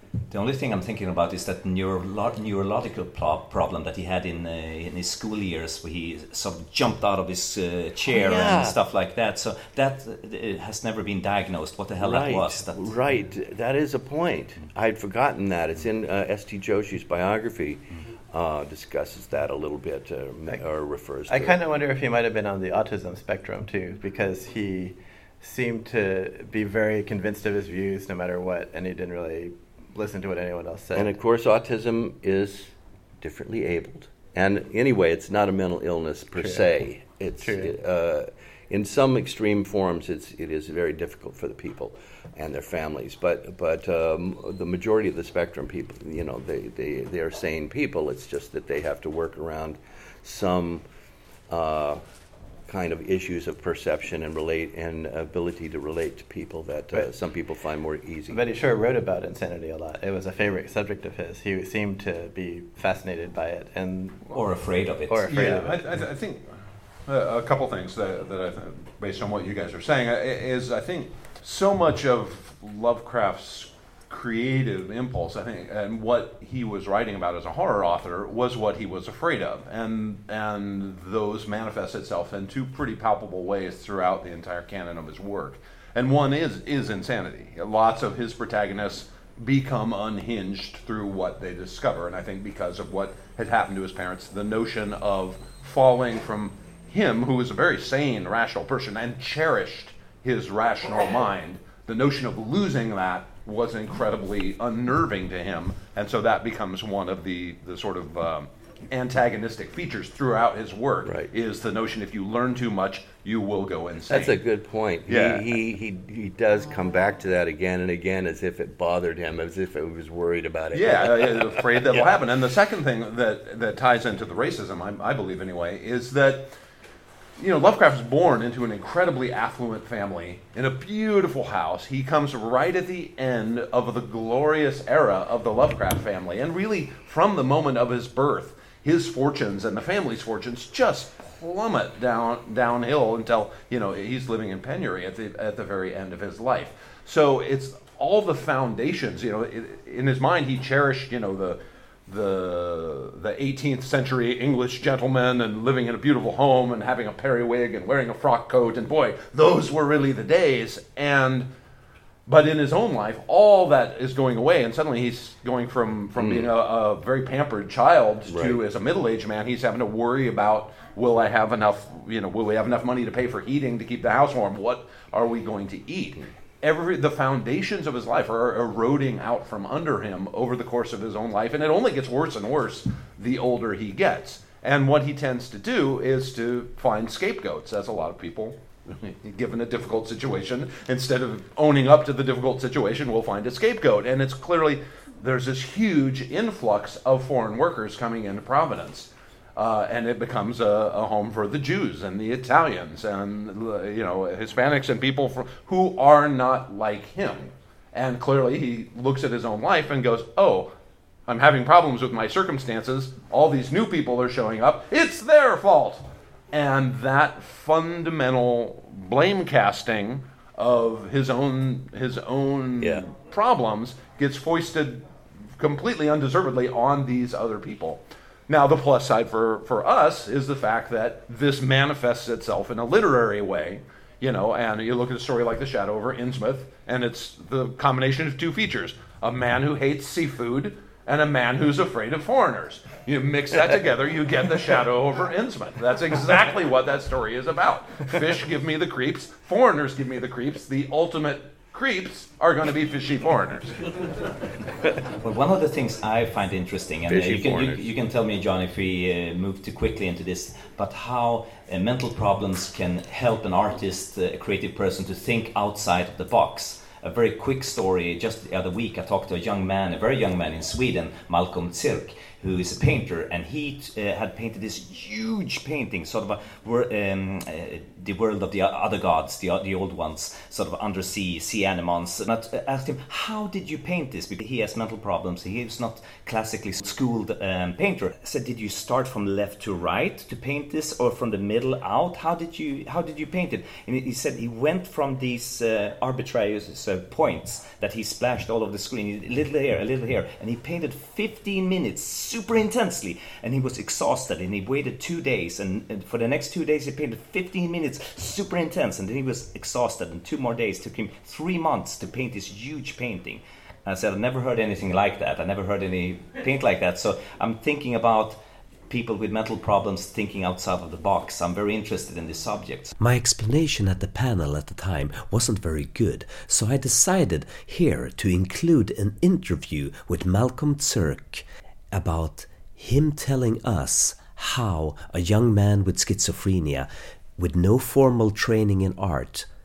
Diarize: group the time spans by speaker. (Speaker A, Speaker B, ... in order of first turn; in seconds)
Speaker A: 0.3-12.9, 64.3-65.5, 255.2-322.9
Speaker B: 8.1-8.8, 12.0-21.6, 30.9-50.9, 51.5-52.0, 52.7-58.4, 111.0-111.3, 114.1-122.1, 166.2-166.5, 168.3-168.6, 222.8-223.1, 257.1-257.9
Speaker C: 21.3-31.1, 36.4-36.7, 37.4-37.7, 58.3-64.3, 65.1-65.8
Speaker D: 65.3-66.5, 67.1-114.4, 115.1-115.5, 120.7-126.5, 127.4-161.5, 162.3-210.7, 211.3-225.1, 225.6-253.9
Speaker E: 323.0-339.5